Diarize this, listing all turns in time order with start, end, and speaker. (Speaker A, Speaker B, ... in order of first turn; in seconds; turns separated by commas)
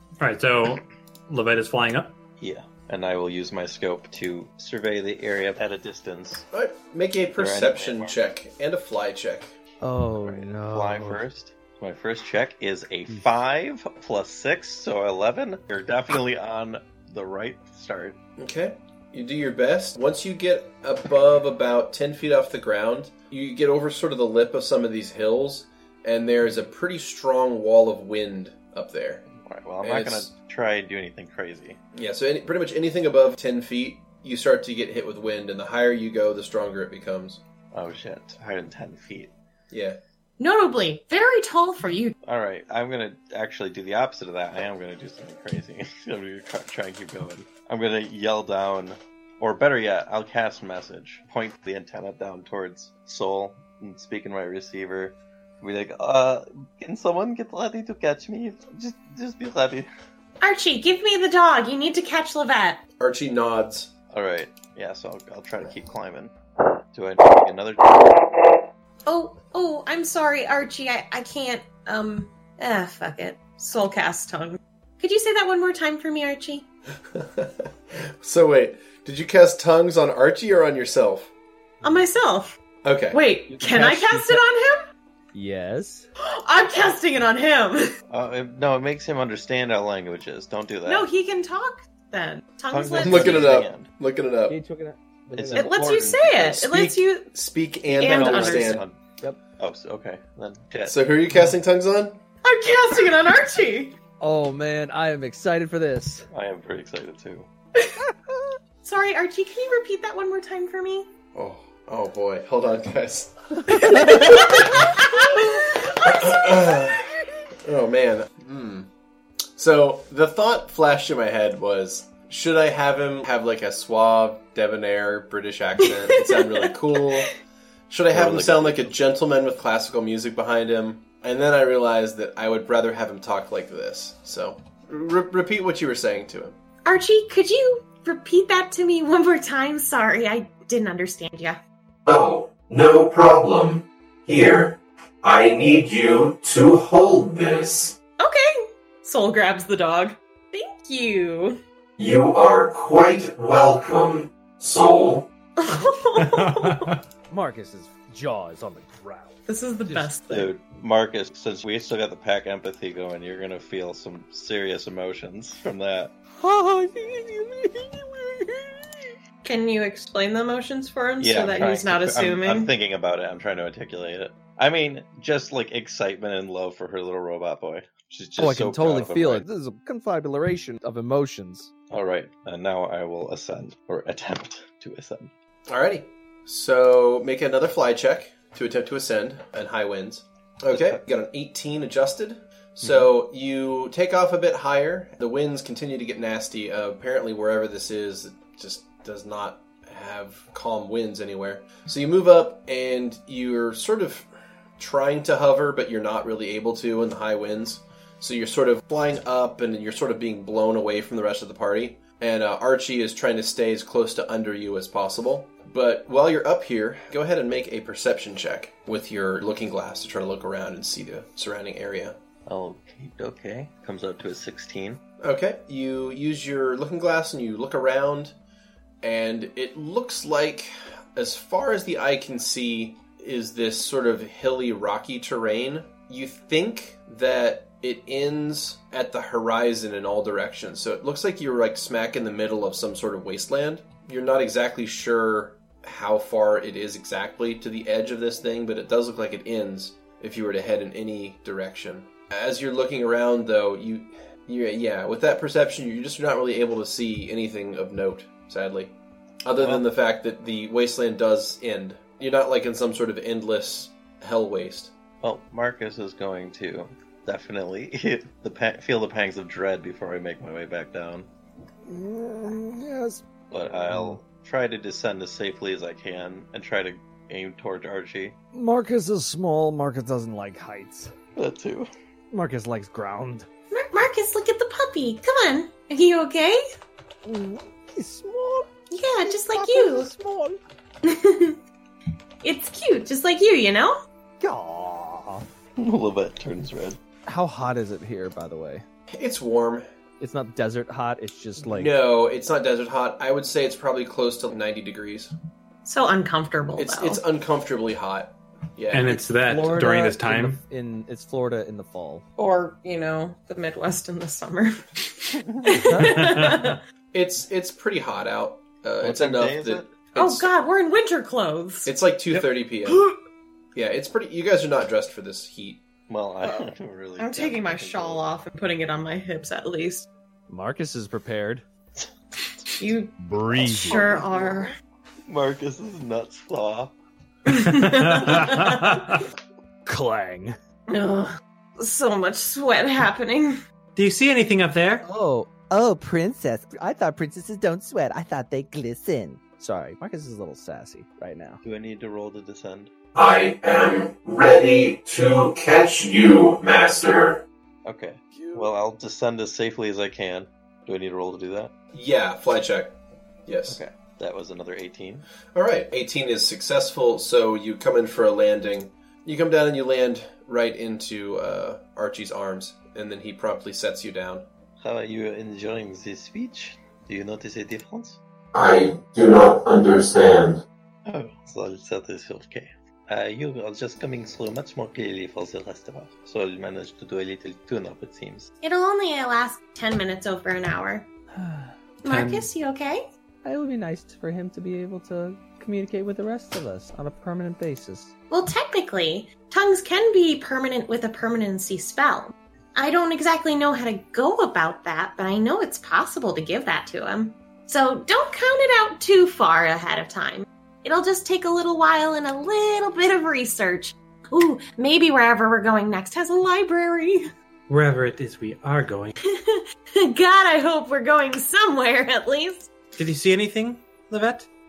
Speaker A: 0.2-2.1, Speaker B: 2.4-6.5, Speaker C: 6.5-9.5, Speaker B: 7.3-8.2, Speaker D: 9.8-11.2, Speaker B: 10.2-18.2, Speaker C: 18.4-29.2, Speaker B: 29.4-31.8, Speaker C: 29.8-30.3, Speaker C: 31.9-37.4, Speaker B: 37.7-39.3, Speaker C: 39.7-40.0, Speaker E: 40.4-42.1, Speaker B: 42.2-59.9, Speaker E: 60.4-62.8, Speaker C: 63.0-63.9, Speaker B: 64.1-66.3, Speaker B: 66.9-68.3, Speaker E: 69.0-76.7, Speaker C: 77.1-81.3, Speaker E: 81.8-82.6, Speaker C: 82.8-83.2, Speaker E: 83.1-84.8, Speaker D: 83.5-84.4, Speaker D: 85.3-86.1, Speaker E: 86.2-87.9, Speaker B: 88.1-91.1, Speaker E: 90.8-93.5, Speaker B: 92.7-93.9, Speaker C: 93.0-94.6, Speaker D: 94.5-95.7, Speaker B: 95.3-96.7, Speaker E: 95.5-97.3, Speaker C: 96.6-98.8, Speaker B: 97.9-99.0, Speaker E: 98.0-98.8, Speaker B: 99.6-101.0, Speaker C: 100.8-102.2, Speaker E: 102.4-104.0, Speaker D: 104.2-106.3, Speaker B: 106.3-107.5, Speaker E: 108.8-111.1, Speaker C: 111.3-117.0, Speaker E: 113.7-116.5, Speaker C: 117.6-118.9, Speaker C: 119.5-127.3, Speaker E: 125.8-127.2, Speaker C: 127.9-136.6, Speaker B: 128.1-128.9, Speaker E: 136.8-141.6, Speaker F: 142.1-147.9, Speaker E: 148.2-151.6, Speaker F: 152.0-155.3, Speaker E: 155.6-156.9, Speaker A: 156.2-157.0, Speaker D: 157.3-159.3, Speaker E: 159.5-160.5, Speaker B: 160.3-166.1, Speaker D: 166.4-169.0, Speaker E: 169.4-172.7, Speaker B: 171.2-179.4, Speaker D: 178.4-181.7, Speaker B: 181.9-185.3, Speaker C: 185.7-204.3, Speaker B: 190.7-191.0, Speaker C: 204.8-222.2, Speaker B: 222.4-225.0, Speaker C: 225.2-228.3, Speaker C: 229.0-264.9, Speaker B: 259.6-259.9, Speaker B: 265.2-271.3, Speaker D: 271.9-273.2, Speaker B: 273.5-278.4, Speaker D: 273.9-274.2, Speaker D: 278.5-281.1, Speaker B: 281.4-281.9, Speaker D: 282.3-283.5, Speaker E: 283.7-286.6, Speaker D: 287.2-288.7, Speaker E: 288.9-290.1, Speaker D: 289.2-290.6, Speaker E: 291.0-291.6, Speaker E: 292.4-294.0, Speaker D: 294.4-295.4, Speaker B: 295.8-297.0, Speaker D: 297.3-298.8, Speaker C: 299.1-299.9, Speaker D: 300.2-301.9, Speaker C: 301.6-305.3, Speaker E: 305.8-307.2, Speaker C: 306.8-309.3, Speaker A: 308.9-310.6, Speaker D: 309.4-312.2, Speaker E: 312.4-316.8, Speaker B: 315.4-315.8, Speaker D: 315.8-316.1, Speaker A: 316.1-316.7, Speaker C: 317.1-320.5, Speaker B: 319.0-319.9, Speaker E: 320.1-321.9, Speaker C: 321.9-323.1, Speaker D: 322.3-323.1, Speaker C: 323.7-325.8, Speaker B: 326.1-328.3, Speaker E: 326.4-330.1, Speaker D: 330.5-331.6, Speaker E: 332.8-334.7, Speaker D: 333.2-334.0, Speaker B: 333.6-334.7, Speaker B: 335.3-336.9, Speaker E: 337.5-339.0, Speaker A: 337.6-339.2, Speaker D: 338.3-338.7, Speaker D: 339.9-340.6, Speaker E: 340.9-341.2, Speaker E: 341.8-343.6, Speaker A: 343.9-345.0, Speaker D: 345.0-351.6, Speaker B: 351.6-352.9, Speaker F: 353.1-357.4, Speaker B: 357.8-361.7, Speaker D: 358.3-358.6, Speaker C: 361.9-362.9, Speaker C: 363.4-363.8, Speaker B: 363.7-365.2, Speaker C: 365.5-374.4, Speaker B: 374.8-378.2, Speaker F: 378.5-380.6, Speaker B: 381.0-388.5, Speaker E: 388.6-391.1, Speaker D: 391.3-391.7, Speaker E: 392.0-393.0, Speaker A: 392.1-392.5, Speaker D: 393.4-398.1, Speaker E: 398.3-417.3, Speaker A: 417.7-419.1, Speaker E: 419.2-422.7, Speaker A: 422.9-424.5